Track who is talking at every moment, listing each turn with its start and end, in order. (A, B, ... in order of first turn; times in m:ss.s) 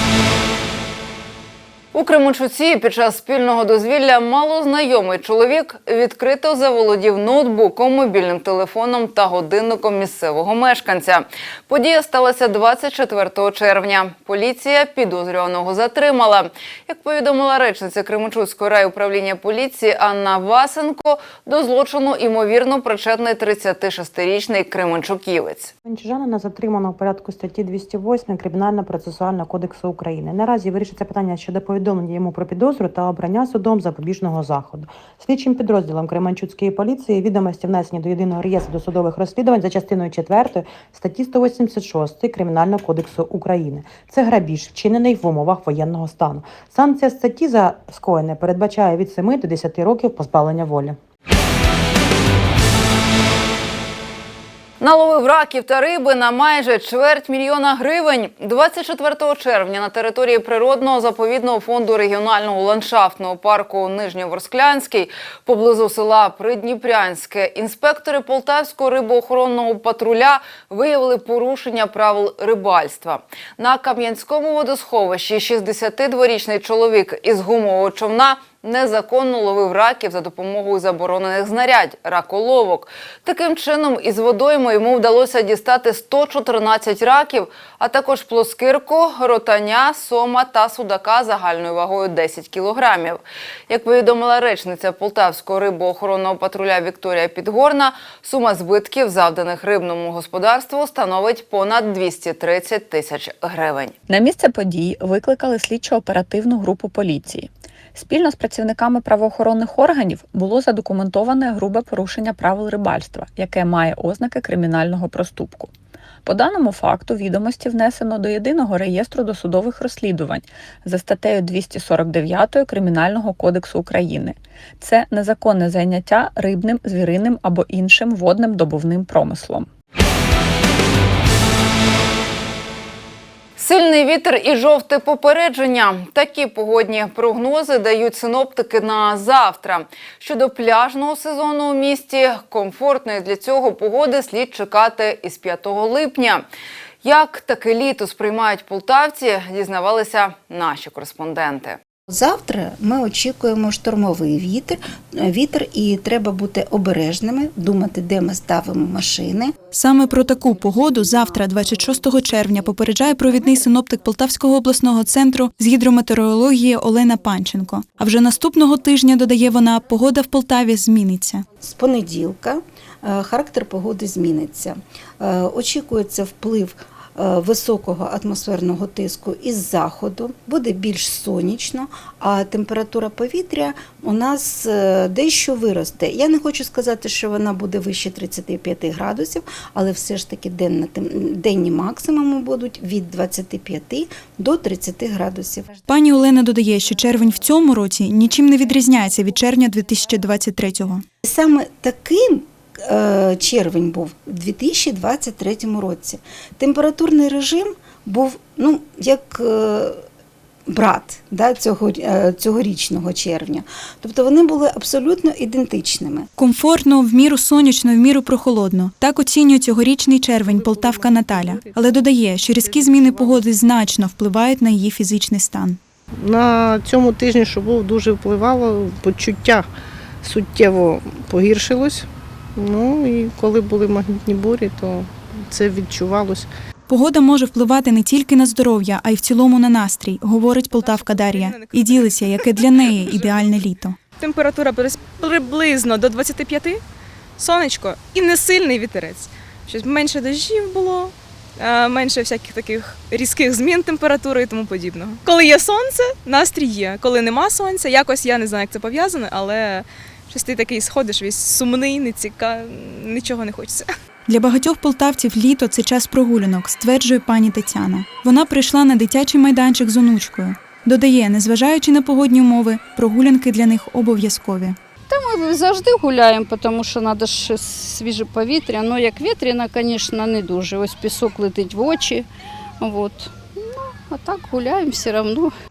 0:01.9-0:25.7 A
0:25.8-0:51.0 B
0:54.8-1:43.9 A
1:44.1-1:55.7 C
1:56.2-2:09.7 C
2:13.6-2:26.4 A
2:27.0-2:31.8 A
2:32.1-2:39.6 D
2:39.7-2:51.4 E
2:51.6-3:15.8 D
3:15.9-3:21.0 E
3:21.2-3:30.0 D
3:30.7-3:36.3 D
3:36.4-3:45.8 E
3:40.4-3:43.4 F
3:46.2-3:49.7 F
3:50.2-3:56.5 F
3:56.9-4:04.0 E
4:00.4-4:06.8 G
4:07.4-4:23.9 G
4:24.3-4:34.8 E
4:35.1-4:42.2 H
4:42.8-4:45.5 H